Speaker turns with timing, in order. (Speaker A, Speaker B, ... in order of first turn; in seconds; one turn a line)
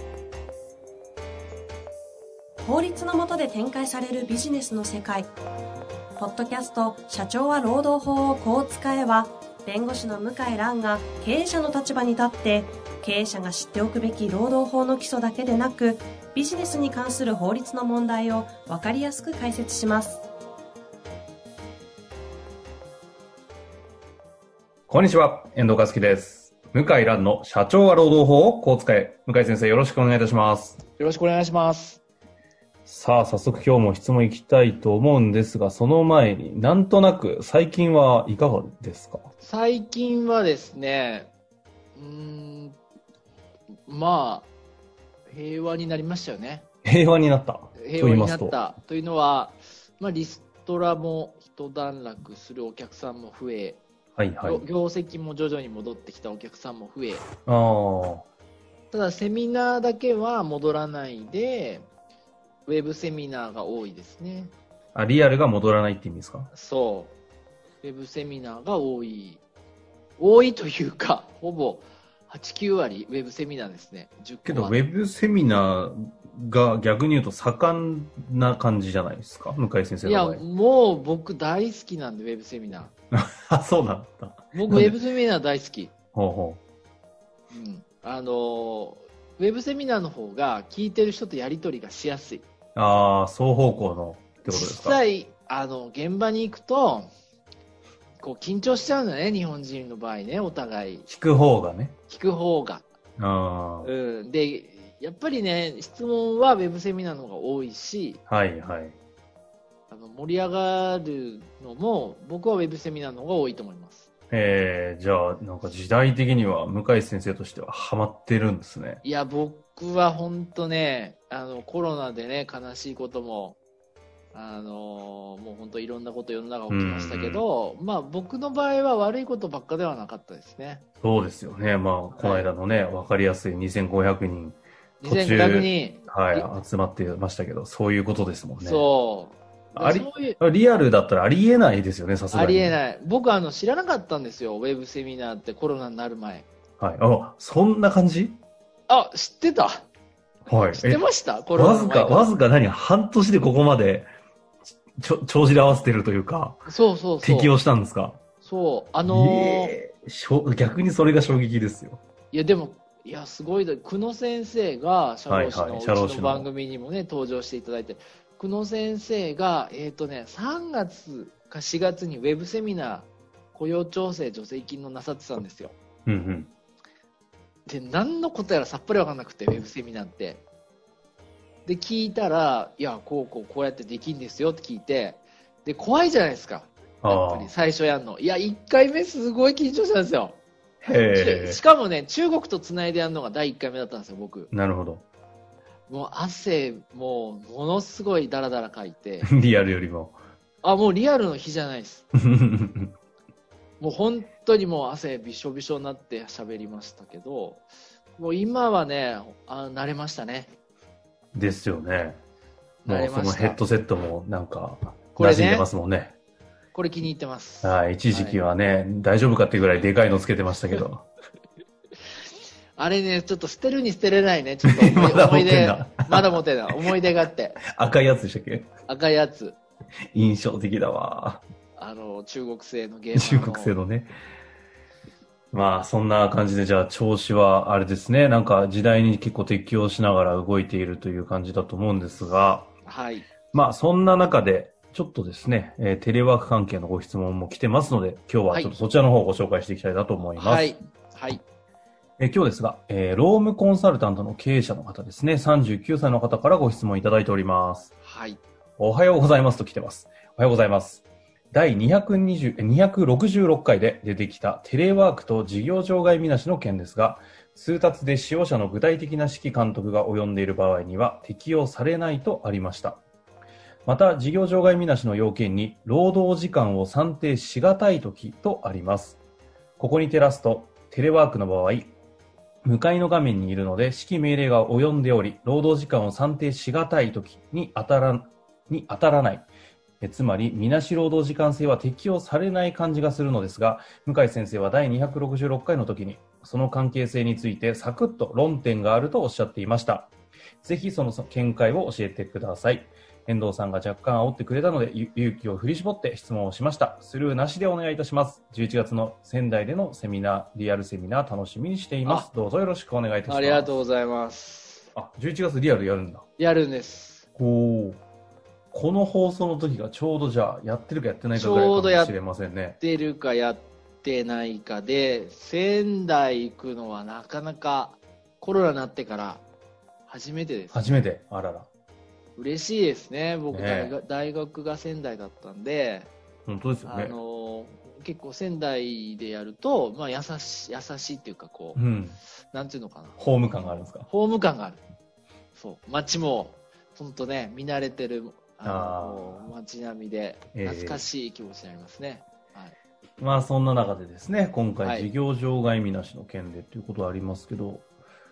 Speaker A: 2.6-5.3
Speaker A: 6.2-20.2
Speaker B: 24.9-30.8
Speaker C: 31.0-32.0
Speaker B: 32.9-39.2
Speaker C: 39.4-41.3
Speaker C: 41.9-42.8
Speaker C: 43.9-44.5
Speaker C: 45.3-46.6
Speaker B: 46.8-48.6
Speaker C: 47.8-53.8
Speaker B: 54.1-54.6
Speaker C: 54.4-57.2
Speaker B: 57.4-58.2
Speaker C: 58.9-61.9
Speaker C: 62.6-64.5
Speaker B: 64.9-66.5
Speaker C: 66.5-67.2
Speaker C: 67.8-69.4
Speaker C: 70.2-74.8
Speaker B: 74.4-80.4
Speaker C: 80.0-82.9
Speaker B: 83.1-84.9
Speaker C: 84.5-85.9
Speaker B: 86.1-86.6
Speaker C: 87.5-92.5
Speaker B: 92.7-95.0
Speaker C: 94.5-97.1
Speaker C: 98.2-101.1
Speaker B: 101.1-102.0
Speaker C: 102.1-102.8
Speaker B: 103.2-103.9
Speaker C: 103.8-108.2
Speaker B: 108.3-109.0
Speaker C: 109.9-114.1
Speaker B: 114.3-119.0
Speaker C: 119.0-123.6
Speaker C: 124.3-130.8
Speaker B: 126.7-127.4
Speaker B: 131.0-138.9
Speaker C: 132.1-132.5
Speaker C: 135.0-136.5
Speaker C: 138.6-140.4
Speaker B: 139.8-142.8
Speaker C: 142.3-146.5
Speaker B: 146.8-148.4
Speaker C: 148.9-149.8
Speaker B: 150.5-151.0
Speaker C: 150.7-152.3
Speaker B: 151.5-154.1
Speaker B: 155.0-156.6
Speaker C: 156.7-157.6
Speaker B: 157.2-158.2
Speaker C: 158.4-159.7
Speaker B: 159.1-162.0
Speaker C: 162.3-175.8
Speaker B: 165.3-166.5
Speaker B: 176.1-176.5
Speaker C: 177.7-180.4
Speaker C: 181.6-194.5
Speaker B: 187.0-187.5
Speaker B: 190.8-191.6
Speaker B: 194.5-195.0
Speaker C: 195.9-199.3
Speaker B: 199.2-200.2
Speaker C: 200.6-202.0
Speaker B: 202.1-202.9
Speaker C: 203.8-207.6
Speaker C: 208.2-210.5
Speaker B: 211.3-212.2
Speaker C: 212.8-213.6
Speaker B: 212.9-216.1
Speaker C: 215.1-215.7
Speaker C: 216.7-218.4
Speaker B: 217.6-221.1
Speaker C: 222.8-227.6
Speaker B: 224.6-226.4
Speaker B: 227.7-228.7
Speaker C: 228.9-229.6
Speaker B: 230.1-231.4
Speaker C: 231.8-233.7
Speaker B: 233.1-234.1
Speaker B: 235.5-242.7
Speaker C: 242.8-243.3
Speaker B: 243.5-250.7
Speaker C: 248.5-248.8
Speaker C: 250.3-251.4
Speaker B: 252.2-257.9
Speaker C: 258.0-258.4
Speaker B: 258.8-273.0
Speaker B: 273.9-279.2
Speaker B: 279.8-281.9
Speaker B: 282.6-289.5
Speaker B: 290.0-313.7
Speaker C: 313.3-314.9
Speaker B: 314.9-316.2
Speaker C: 316.4-317.2
Speaker B: 317.4-318.0
Speaker B: 318.7-322.8
Speaker C: 321.3-322.1
Speaker C: 322.8-329.4
Speaker C: 330.1-331.0
Speaker B: 330.7-331.7
Speaker C: 332.4-336.1
Speaker B: 333.5-333.9
Speaker B: 336.4-337.2
Speaker C: 336.8-341.8
Speaker B: 341.7-342.2
Speaker C: 342.5-344.8
Speaker B: 343.2-344.1
Speaker C: 345.5-352.8
Speaker B: 348.6-349.5
Speaker B: 350.5-351.0
Speaker B: 353.2-357.9
Speaker C: 354.8-355.1